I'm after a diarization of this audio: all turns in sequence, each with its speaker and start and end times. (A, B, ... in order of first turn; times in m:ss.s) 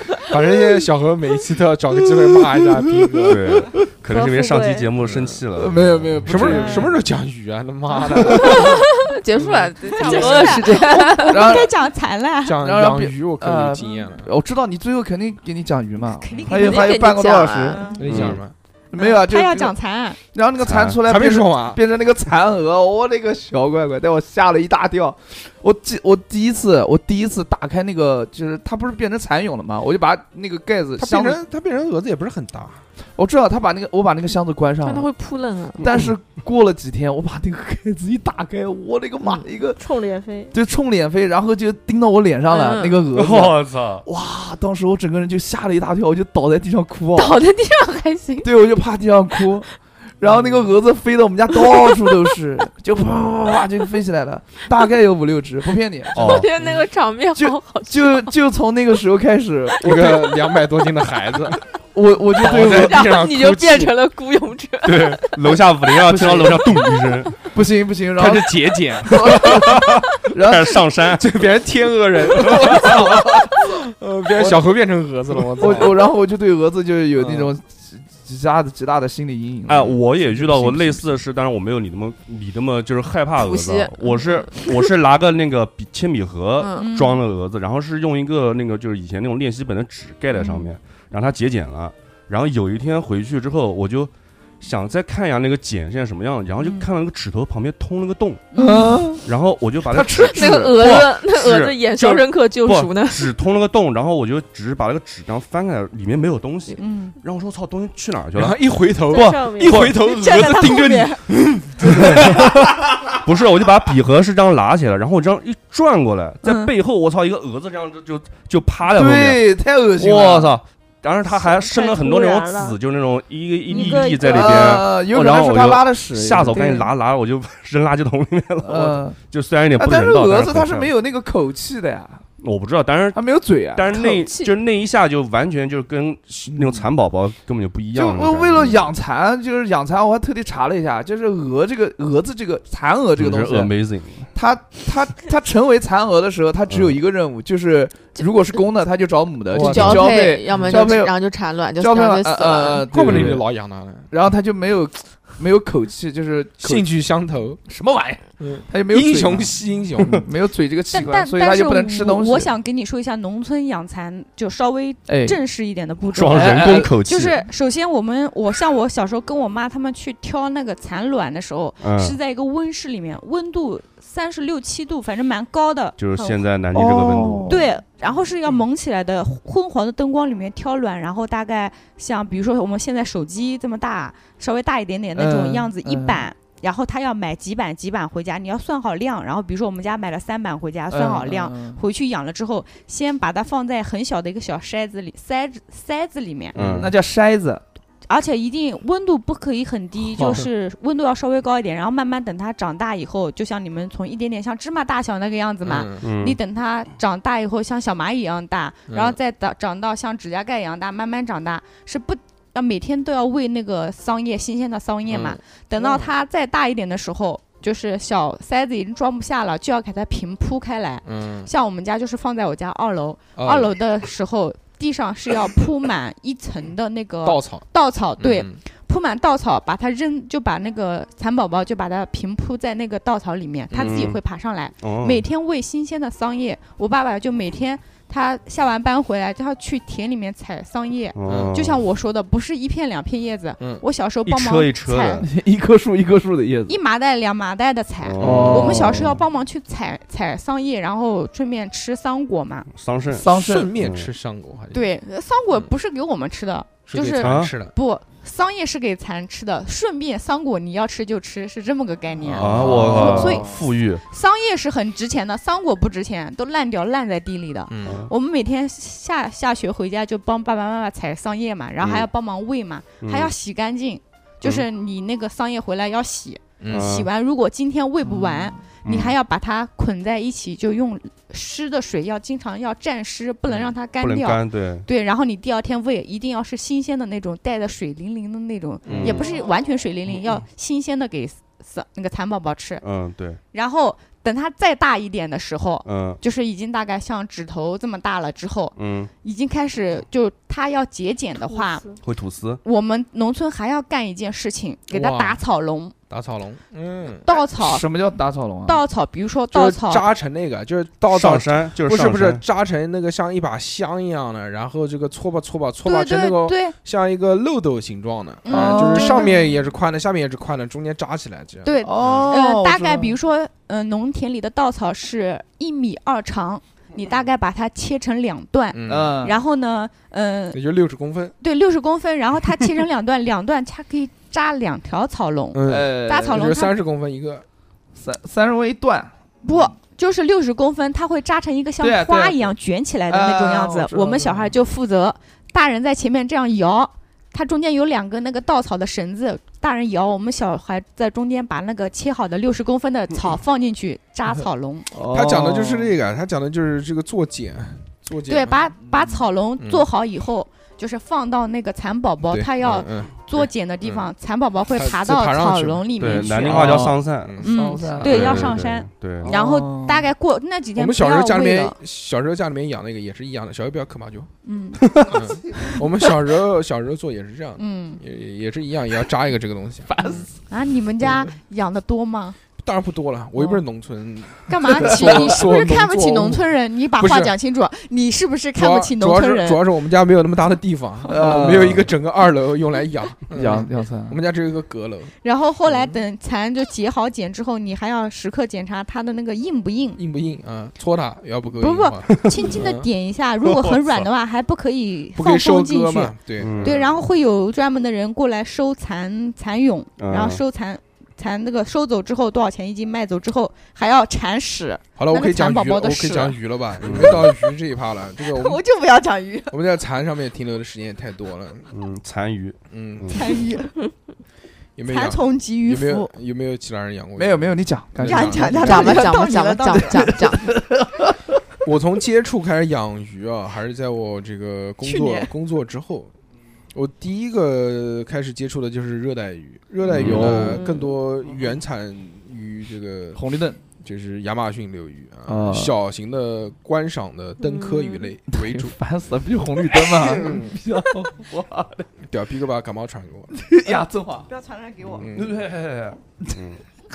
0:00.2-0:03.7 A
0:02.8-0:03.3 B
0:03.2-0:06.7 C
0:04.1-0:04.9 D
0:05.0-0:05.4 A
0:05.6-0:07.0 B
0:06.2-0:08.9 A
0:08.0-0:08.7 B
0:08.4-0:11.6 E
0:09.4-0:09.7 A
0:09.8-0:12.6 F
0:10.2-0:11.7 B
0:12.4-0:14.3 A
0:12.6-0:17.8 B
0:16.1-0:17.2 F
0:16.5-0:18.0 E
0:17.7-0:18.2 F
0:18.0-0:18.5 A
0:18.1-0:18.4 C
0:18.9-0:31.4 B
0:18.9-0:20.2 F
0:20.6-0:21.0 C
0:21.0-0:21.8 A
0:31.0-0:32.8 A
0:33.2-0:35.1 B
0:34.8-0:35.9 E
0:35.8-0:39.8 B
0:39.8-0:40.5 D
0:40.5-0:47.4 B
0:42.5-0:43.0 E
0:43.1-0:44.1 C
0:47.2-0:48.5 E
0:48.4-0:56.7 B
0:51.6-0:52.2 E
0:56.1-0:58.3 E
0:56.2-0:56.5 C
0:57.3-1:00.3 B
0:59.8-1:01.6 A
1:01.9-1:03.1 B
1:02.4-1:04.0 A
1:02.4-1:05.6 E
1:04.8-1:07.4 C
1:06.2-1:06.6 B
1:06.2-1:06.6 A
1:07.5-1:10.8 B
1:08.2-1:09.8 A
1:09.3-1:11.3 C
1:11.1-1:16.0 A
1:12.2-1:13.7 B
1:12.5-1:12.9 C
1:15.6-1:21.0 B
1:17.2-1:17.5 A
1:19.7-1:38.5 C
1:23.4-1:24.8 E
1:26.6-1:26.9 E
1:26.8-1:27.2 F
1:30.4-1:30.7 F
1:38.5-1:39.1 F
1:38.6-1:39.2 B
1:39.2-1:48.6 C
1:39.9-1:40.7 B
1:40.2-1:43.3 E
1:46.8-1:47.2 F
1:48.4-1:52.6 A
1:49.1-1:49.9 D
1:49.1-1:50.0 C
1:49.9-1:51.2 F
1:51.9-1:52.5 C
1:53.2-2:10.9 C
1:56.4-1:56.7 F
1:58.9-2:00.5 B
2:01.3-2:02.8 D
2:03.7-2:04.7 D
2:03.8-2:04.0 F
2:04.1-2:06.8 B
2:08.6-2:09.2 B
2:09.8-2:12.2 B
2:12.4-2:18.9 C
2:13.1-2:14.2 B
2:13.9-2:14.5 E
2:16.5-2:16.9 B
2:18.0-2:23.7 B
2:23.2-2:24.3 C
2:24.3-2:31.2 B
2:26.7-2:27.0 C
2:29.5-2:30.9 A
2:29.6-2:32.8 E
2:29.7-2:30.1 C
2:31.8-2:33.5 B
2:32.9-2:34.1 A
2:33.1-2:33.4 C
2:34.1-2:36.9 B
2:36.6-2:37.6 A
2:37.7-2:42.5 B
2:38.4-2:40.2 A
2:40.9-2:56.4 F
2:45.1-2:45.4 B
2:46.1-2:47.4 C
2:46.3-2:47.0 B
2:51.8-2:52.2 C
2:56.0-2:57.6 C
2:56.7-2:57.6 B
2:57.5-3:16.6 F
3:05.2-3:06.3 B
3:10.9-3:11.8 B
3:16.6-3:16.9 C
3:16.6-3:16.9 A
3:16.6-3:17.6 B
3:18.1-4:05.3 F
3:20.2-3:20.5 A
3:25.6-3:26.1 A
3:26.0-3:26.4 C
3:28.9-3:29.2 A
3:35.1-3:36.1 A
3:41.0-3:41.5 A
3:43.4-3:43.7 A
3:47.2-3:48.6 A
3:53.7-3:54.1 A
3:53.8-3:54.2 C
3:54.8-3:55.2 C
4:01.2-4:01.8 C
4:01.2-4:01.6 A
4:03.6-4:03.8 A
4:04.3-4:05.3 C
4:05.2-4:06.8 B
4:06.7-4:12.7 F
4:08.0-4:09.2 C
4:08.2-4:09.1 B
4:08.2-4:08.6 A
4:12.7-4:14.1 C
4:13.2-4:13.7 B
4:13.3-4:14.9 A
4:14.7-4:23.5 F
4:16.8-4:17.7 A
4:17.2-4:17.6 C
4:22.3-4:23.4 A
4:22.3-4:24.0 C
4:22.6-4:23.5 B
4:24.0-4:52.8 F
4:27.7-4:28.1 A
4:27.8-4:28.1 C
4:31.8-4:32.1 C
4:33.0-4:33.3 C
4:36.6-4:37.0 A
4:36.7-4:37.1 C
4:38.0-4:38.6 B
4:38.8-4:39.2 C
4:44.0-4:44.9 C
4:48.9-4:49.3 A
4:48.9-4:49.3 C
4:52.8-4:53.4 C
4:53.5-5:01.9 F
4:55.8-4:56.2 C
4:58.8-4:59.1 C
5:01.4-5:02.0 D
5:02.0-5:02.6 C
5:02.6-5:05.9 F
5:04.9-5:05.4 A
5:06.1-5:07.3 A
5:07.2-5:07.9 F
5:07.6-5:08.8 B
5:08.7-5:10.1 F
5:09.5-5:22.3 A
5:11.1-5:12.4 C
5:15.8-5:16.8 F
5:18.4-5:19.6 F
5:18.5-5:19.3 B
5:21.6-5:30.6 F
5:21.8-5:23.1 B
5:28.7-5:29.2 A
5:28.9-5:29.4 B
5:30.5-5:31.4 A
5:31.4-5:36.8 F
5:35.5-5:37.4 A
5:35.6-5:36.5 B
5:38.0-5:39.7 B
5:39.4-5:54.9 F
5:41.8-5:42.5 B
5:43.1-5:44.5 B
5:54.9-5:55.9 B
5:55.1-5:58.7 A
5:58.3-6:06.9 F
5:58.8-5:59.2 B
5:59.6-5:59.8 A
6:02.3-6:04.1 A
6:04.7-6:08.5 A
6:06.0-6:07.4 C
6:06.5-6:08.5 B
6:07.4-6:11.8 F
6:08.0-6:09.3 C
6:09.2-6:10.1 B
6:10.8-6:14.3 A
6:14.4-6:15.1 F
6:15.0-6:20.3 A
6:17.6-6:18.0 F
6:19.9-6:20.3 B
6:20.5-6:22.4 F
6:22.6-6:27.3 A
6:24.5-6:29.6 F
6:28.6-6:35.1 A
6:31.1-6:31.9 B
6:33.3-6:34.2 B
6:35.2-6:40.0 F
6:35.7-6:36.0 A
6:40.0-6:42.9 A
6:41.6-6:57.5 F
6:43.4-6:44.1 C
6:45.2-6:47.0 A
6:46.4-6:46.8 C
6:50.0-6:50.4 C
6:55.0-6:58.6 A
6:56.8-6:57.3 C
6:58.2-6:59.6 F
6:59.5-7:01.7 A
7:01.7-7:03.3 C
7:02.7-7:03.4 A
7:03.1-7:03.7 F
7:04.8-7:08.9 A
7:04.9-7:06.1 F
7:07.2-7:09.0 B
7:08.0-7:10.2 F
7:08.6-7:10.5 E
7:09.9-7:11.3 B
7:11.6-7:16.1 A
7:14.8-7:15.3 F
7:16.7-7:23.2 A
7:19.9-7:20.6 B
7:19.9-7:20.6 C
7:20.6-7:20.9 D
7:23.2-7:23.6 B
7:23.8-7:28.8 A
7:25.3-7:25.7 B
7:27.4-7:28.1 D
7:28.3-7:31.8 B
7:29.9-7:30.6 A
7:32.0-7:33.4 A
7:33.3-7:34.3 B
7:34.3-7:35.1 F
7:35.0-7:35.4 A
7:35.1-7:36.6 C